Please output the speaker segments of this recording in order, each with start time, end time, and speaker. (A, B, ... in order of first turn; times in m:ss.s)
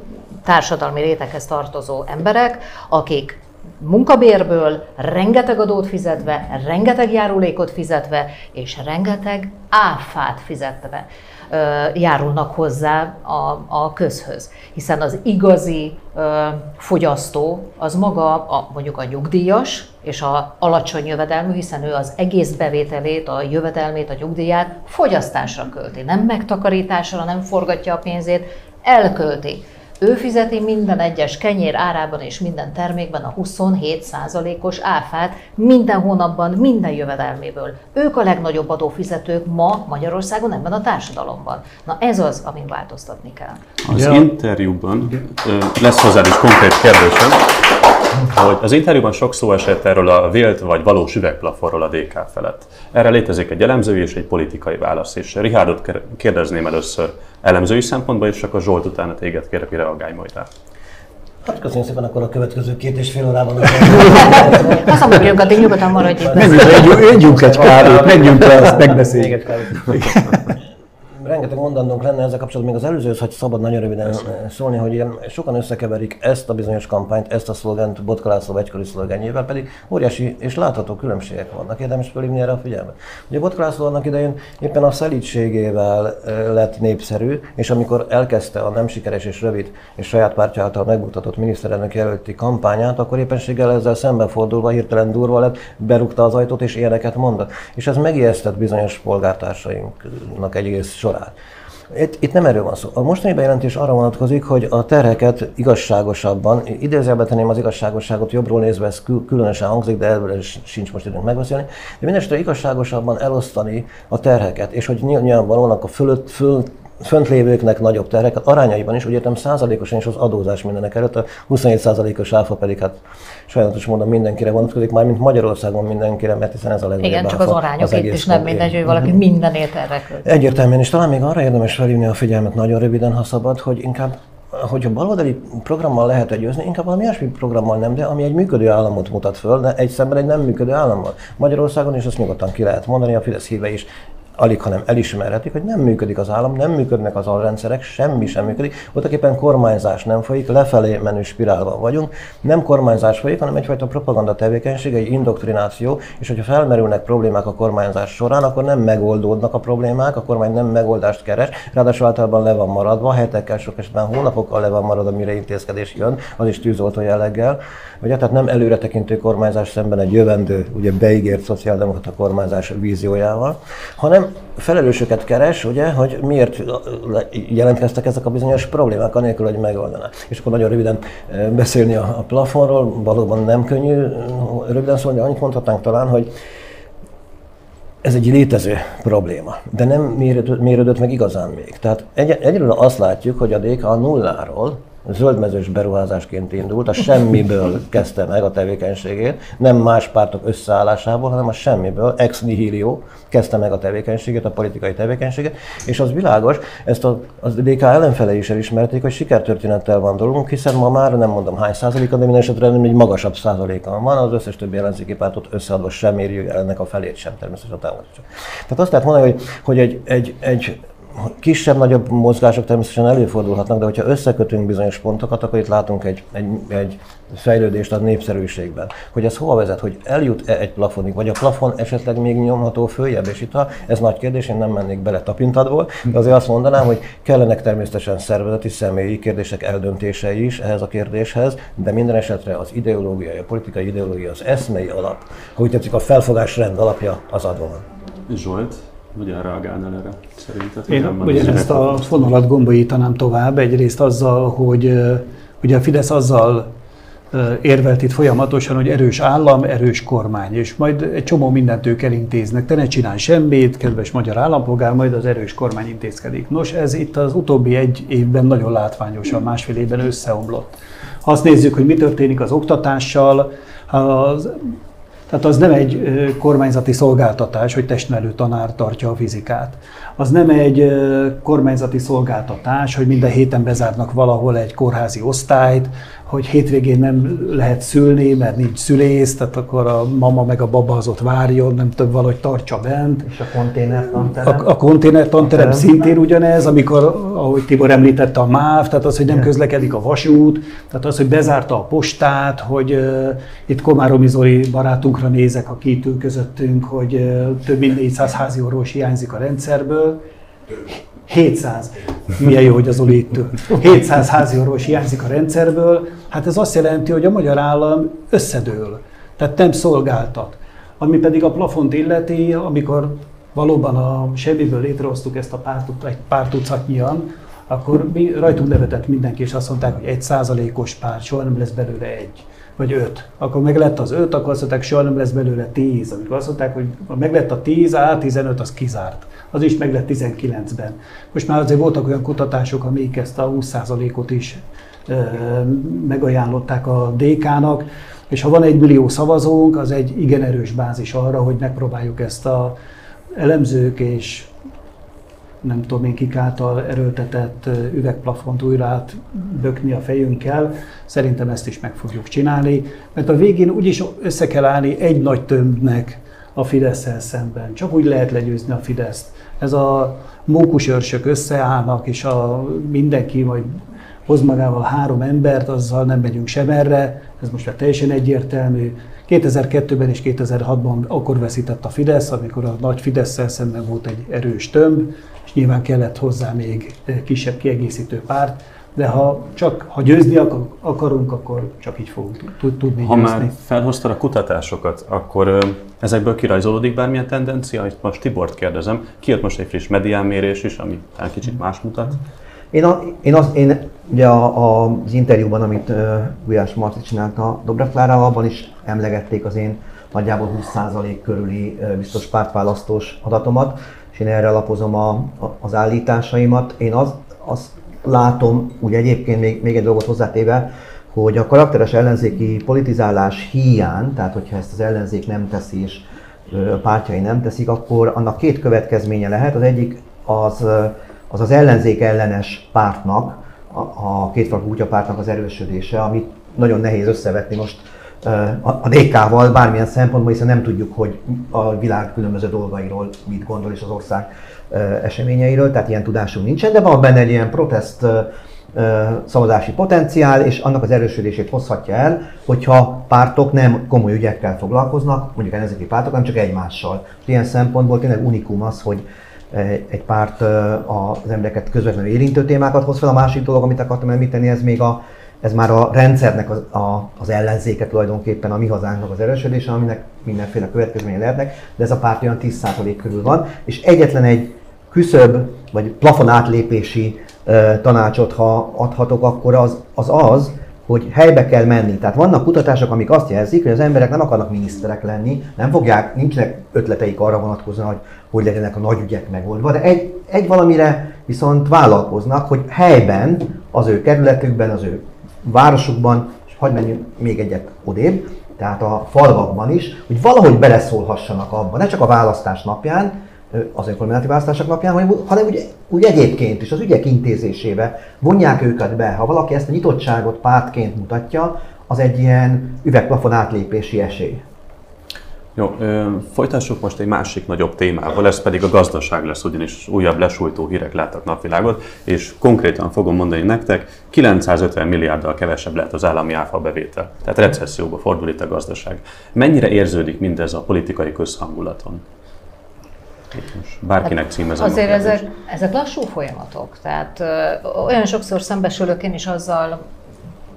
0:00.4-0:43.6 A
0:43.8-0:47.5 B
0:43.9-0:44.3 C
0:48.2-1:00.5 B
1:01.4-1:05.4 D
1:04.0-1:06.8 A
1:06.0-1:10.0 D
1:06.4-1:10.5 C
1:11.2-1:41.4 D
1:41.9-2:09.2 D
2:07.0-2:10.3 A
2:10.2-3:06.3 D
3:08.0-4:07.8 D
4:08.3-4:12.4 B
4:10.9-4:16.7 C
4:17.3-4:34.8 C
4:35.3-4:53.3 C
4:53.2-4:54.7 E
4:54.2-5:10.2 C
4:55.4-4:55.9 E
5:11.3-5:52.8 C
5:53.4-5:54.5 C
5:55.6-6:33.5 C
6:33.0-6:42.2 B
6:42.7-8:34.4 E
8:35.6-8:52.0 B
8:53.3-8:55.2 B
8:54.0-8:59.8 A